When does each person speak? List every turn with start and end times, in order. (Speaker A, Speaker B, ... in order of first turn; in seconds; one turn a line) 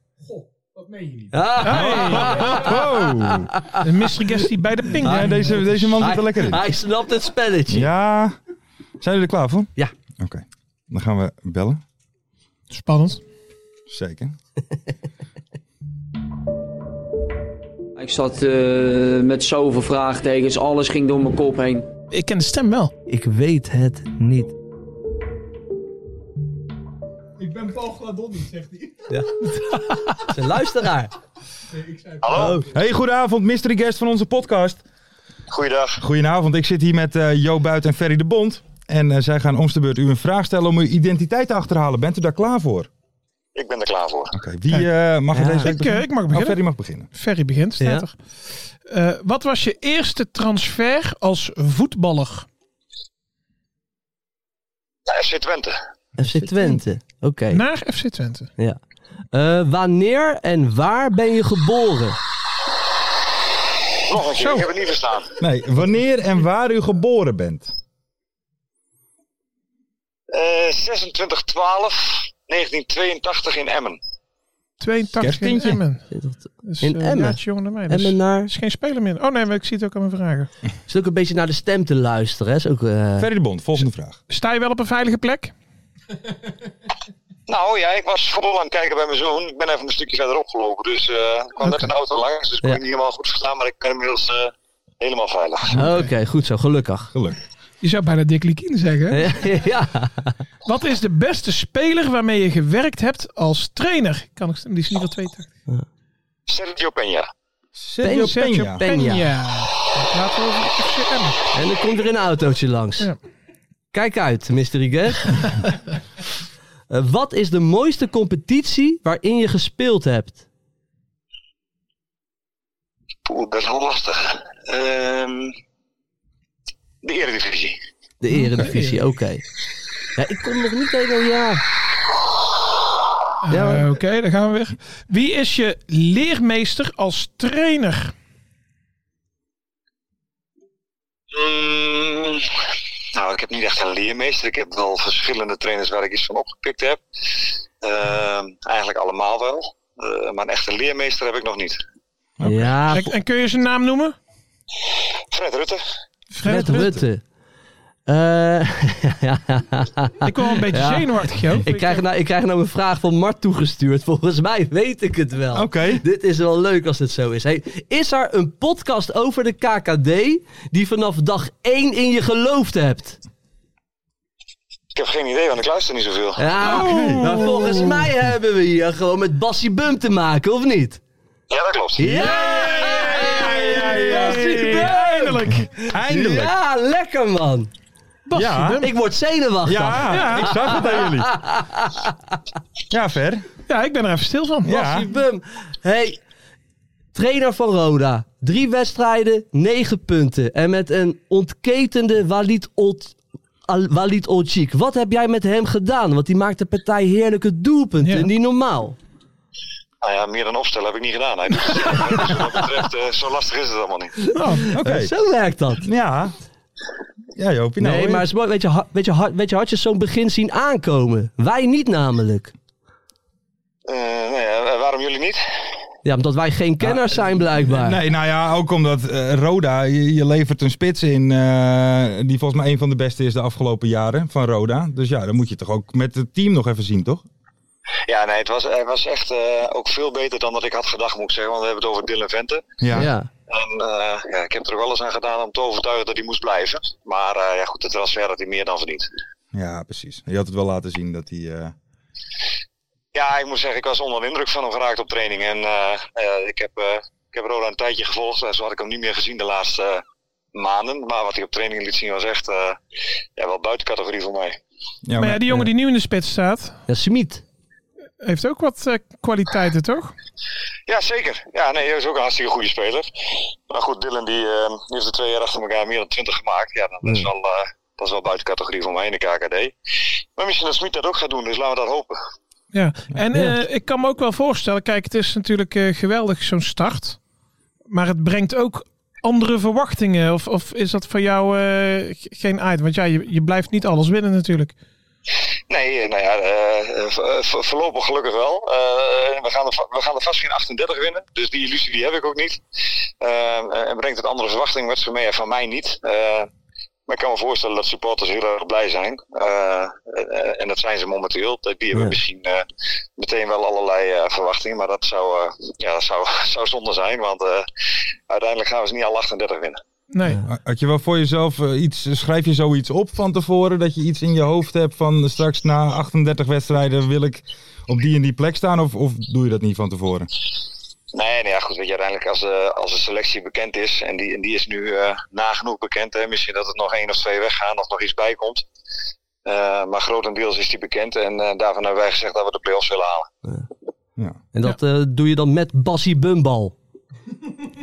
Speaker A: 0.8-2.8
Speaker B: 1.3-3.9
Speaker C: 1.6-3.6
Speaker A: 3.8-6.0
Speaker B: 5.0-7.9
Speaker C: 5.0-6.7
Speaker C: 7.7-8.4
Speaker C: 9.0-11.8
Speaker A: 12.7-13.2
Speaker C: 13.9-14.3
Speaker D: 18.0-21.9
Speaker A: 22.1-22.9
Speaker B: 23.1-24.5
Speaker A: 27.4-30.3
Speaker B: 29.1-31.1
Speaker E: 32.2-32.6
Speaker B: 32.3-32.6
Speaker C: 32.6-34.8
Speaker E: 35.5-36.0
Speaker C: 36.0-42.9
Speaker E: 43.5-44.3
Speaker C: 44.3-47.1
Speaker B: 45.3-45.7
Speaker A: 45.6-46.6
Speaker A: 47.1-48.2
Speaker B: 47.8-48.1
Speaker A: 48.9-52.5
Speaker E: 55.1-55.8
Speaker B: 56.2-57.6
Speaker A: 57.5-58.5
Speaker B: 59.3-62.2
Speaker E: 64.1-65.3
Speaker A: 64.3-64.7
Speaker C: 65.4-67.7
Speaker E: 70.3-74.0
Speaker A: 74.8-76.1
Speaker C: 75.2-75.8
Speaker B: 76.1-78.5
Speaker A: 76.6-80.5
Speaker B: 80.9-83.3
Speaker C: 83.2-84.2
Speaker A: 84.3-85.5
Speaker E: 87.5-95.9
Speaker A: 91.6-91.9
Speaker B: 95.7-97.1
Speaker C: 97.1-97.4
Speaker A: 97.8-99.5
Speaker B: 99.1-100.4
Speaker A: 100.7-105.5
Speaker E: 106.5-107.3
Speaker C: 107.8-108.8
Speaker B: 108.0-109.3
Speaker A: 108.1-111.5
Speaker B: 111.5-113.1
Speaker B: 113.9-115.5
Speaker B: 116.9-120.4
Speaker E: 123.3-125.5
Speaker E: 127.0-127.8
Speaker B: 128.2-129.4
Speaker A: 128.3-129.0
Speaker B: 130.2-131.6
Speaker A: 133.4-138.1
Speaker B: 133.5-133.9
Speaker E: 141.3-142.5
Speaker E: 143.1-147.0
Speaker E: 147.8-151.8
Speaker C: 152.4-152.8
Speaker B: 152.4-153.1
Speaker A: 152.9-154.2
Speaker E: 155.3-155.8
Speaker A: 156.3-156.9
Speaker B: 156.4-157.2
Speaker B: 158.1-173.2
Speaker A: 160.2-162.0
Speaker C: 165.5-166.0
Speaker E: 174.9-176.4
Speaker B: 176.4-181.0
Speaker A: 176.6-177.9
Speaker C: 176.7-177.4
Speaker E: 181.5-182.2
Speaker B: 182.0-187.7
Speaker A: 182.1-185.7
Speaker C: 183.0-184.8
Speaker C: 185.7-186.5
Speaker A: 188.3-188.9
Speaker C: 188.3-188.8
Speaker B: 188.8-192.1
Speaker C: 189.6-191.4
Speaker A: 190.1-190.7
Speaker C: 192.9-193.4
Speaker A: 193.7-194.8
Speaker C: 194.6-195.1
Speaker B: 194.7-196.2
Speaker B: 197.1-203.2
Speaker B: 203.7-209.0
Speaker A: 208.0-208.3
Speaker E: 210.0-214.2
Speaker B: 212.2-212.4
Speaker A: 214.3-214.7
Speaker B: 214.5-215.8
Speaker C: 214.7-215.1
Speaker C: 215.8-216.3
Speaker C: 217.4-218.3
Speaker B: 217.8-222.5
Speaker E: 223.9-225.4
Speaker B: 226.1-228.0
Speaker C: 226.8-237.2
Speaker E: 238.1-242.6
Speaker C: 242.8-243.1
Speaker B: 242.9-243.3
Speaker E: 243.5-249.1
Speaker C: 249.5-251.8
Speaker E: 253.1-260.0
Speaker E: 260.5-262.8
Speaker E: 263.4-264.6
Speaker C: 265.1-265.4
Speaker A: 265.2-266.8
Speaker B: 266.9-267.4
Speaker A: 268.2-270.1
Speaker E: 270.9-273.1
Speaker E: 273.7-279.7
Speaker B: 277.0-277.3
Speaker E: 280.4-282.2
Speaker A: 282.7-287.2
Speaker A: 287.9-294.7
Speaker E: 295.7-302.6
Speaker E: 303.2-306.5
Speaker E: 307.1-312.6
Speaker E: 313.2-317.7
Speaker E: 318.3-319.8
Speaker A: 320.1-320.4
Speaker C: 320.5-330.3
Speaker E: 331.1-338.6
Speaker E: 339.4-343.3
Speaker B: 344.5-346.8